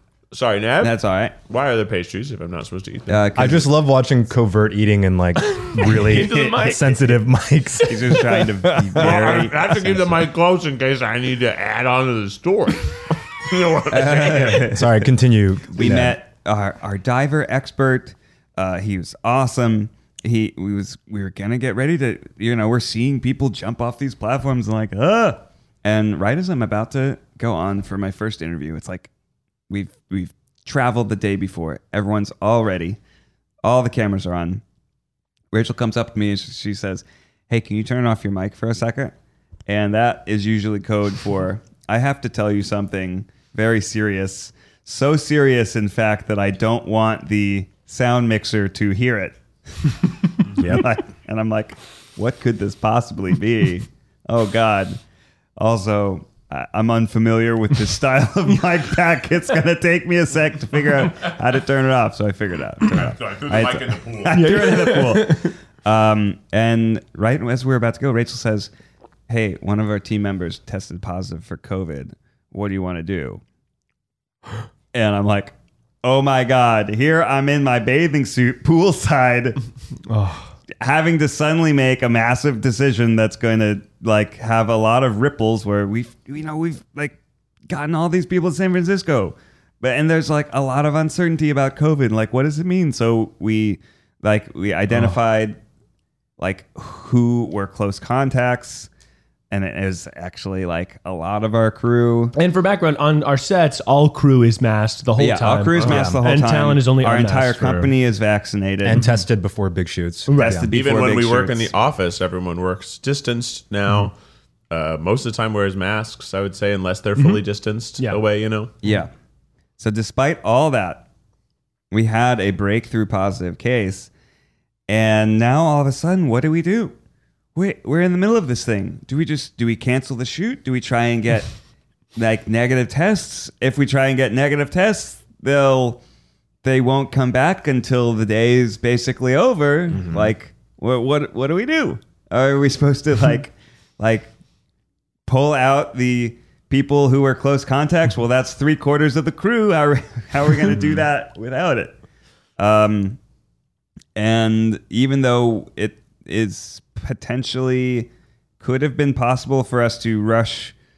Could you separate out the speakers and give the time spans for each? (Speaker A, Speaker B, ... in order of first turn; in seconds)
Speaker A: 0.3-3.4, 8.9-14.7, 62.9-64.8, 110.7-114.1, 114.7-118.8, 139.9-140.3
Speaker B: 0.8-1.4, 3.1-3.7, 7.9-10.1, 13.9-15.0, 15.7-29.1, 29.7-33.0, 33.6-34.6, 35.5-39.1, 39.7-50.0, 50.6-55.0, 55.6-68.7, 69.3-73.4, 74.9-79.6, 80.8-87.2, 87.7-95.6, 96.4-98.9, 99.5-102.3, 105.2-109.1, 110.4-111.7, 118.8-119.1, 119.8-121.1, 121.9-124.1, 124.9-127.0, 127.5-131.5, 132.2-136.0, 136.6-144.3, 145.3-151.9, 152.6-153.2, 154.2-158.1, 158.6-160.7
Speaker C: 3.4-9.2, 14.3-16.2, 50.6-50.9, 105.8-106.2, 108.8-110.7
Speaker D: 5.6-7.1, 64.3-65.5, 80.1-80.5, 102.3-107.9, 110.3-110.7, 117.2-117.4